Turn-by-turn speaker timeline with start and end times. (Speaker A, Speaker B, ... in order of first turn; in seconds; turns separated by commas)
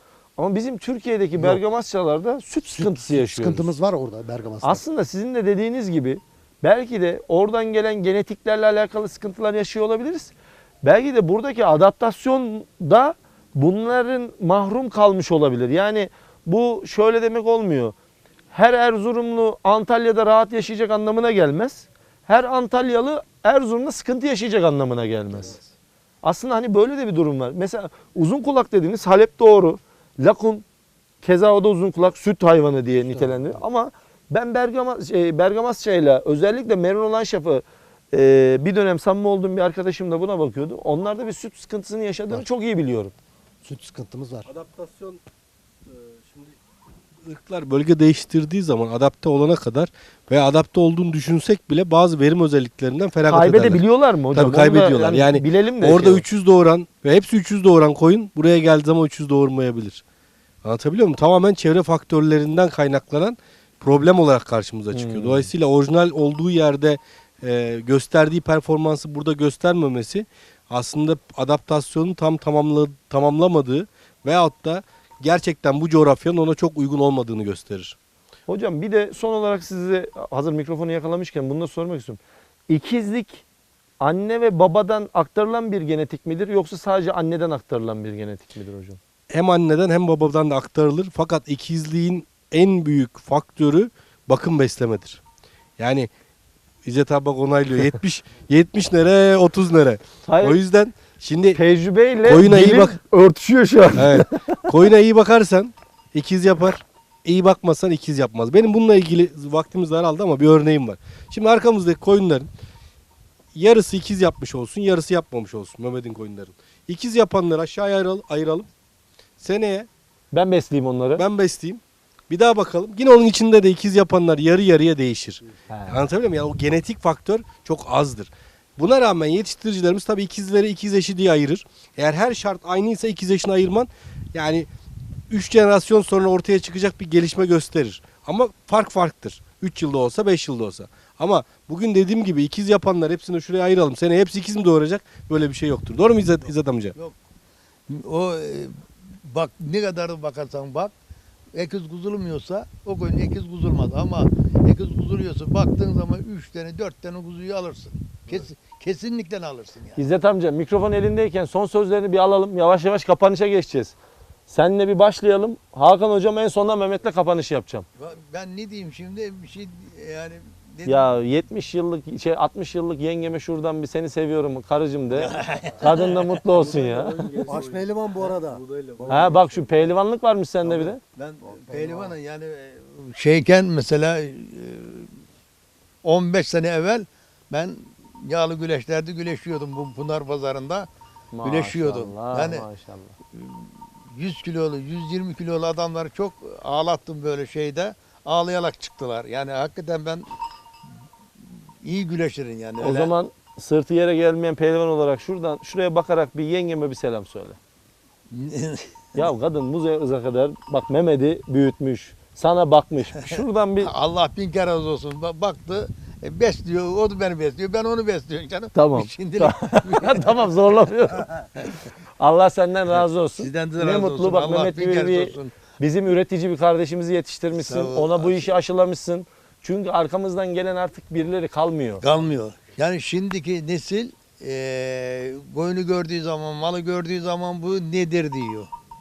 Speaker A: 0.4-3.7, Speaker B: 1.4-1.6, Speaker B: 2.7-4.8, Speaker A: 4.6-10.3, Speaker A: 10.8-17.9, Speaker A: 18.5-25.6, Speaker A: 26.2-30.6, Speaker A: 31.2-43.1, Speaker B: 33.0-33.6, Speaker B: 43.6-44.5, Speaker C: 44.5-45.2, Speaker C: 45.9-46.6, Speaker C: 47.2-60.0, Speaker A: 53.3-56.2, Speaker C: 60.6-78.0, Speaker A: 64.9-65.5, Speaker A: 78.5-83.4, Speaker A: 84.0-89.0, Speaker C: 89.3-95.2, Speaker C: 95.8-96.1, Speaker C: 96.8-101.6, Speaker A: 100.2-100.6, Speaker A: 101.5-104.7, Speaker C: 102.2-103.0, Speaker C: 103.9-112.5, Speaker C: 113.5-118.7, Speaker C: 119.4-119.9, Speaker A: 120.3-121.2, Speaker C: 121.2-134.7, Speaker A: 125.7-126.0, Speaker C: 135.3-146.9, Speaker D: 146.4-147.2, Speaker D: 147.9-150.9, Speaker D: 151.5-160.0, Speaker A: 159.9-163.9, Speaker A: 164.5-167.8, Speaker D: 168.0-171.1, Speaker A: 170.8-177.3, Speaker D: 175.1-176.3, Speaker C: 176.4-179.5, Speaker B: 177.5-178.6, Speaker D: 179.1-179.9, Speaker A: 179.1-181.0, Speaker D: 180.6-185.1, Speaker B: 181.5-182.1, Speaker D: 186.0-190.9, Speaker A: 191.3-193.2, Speaker D: 191.4-192.7, Speaker D: 193.3-200.2, Speaker D: 201.8-203.1, Speaker A: 202.8-207.6, Speaker D: 208.3-209.3, Speaker A: 209.2-213.9, Speaker D: 213.2-220.6, Speaker A: 218.7-221.4, Speaker A: 222.2-232.0, Speaker D: 223.4-225.5, Speaker D: 227.5-228.6, Speaker D: 232.0-238.7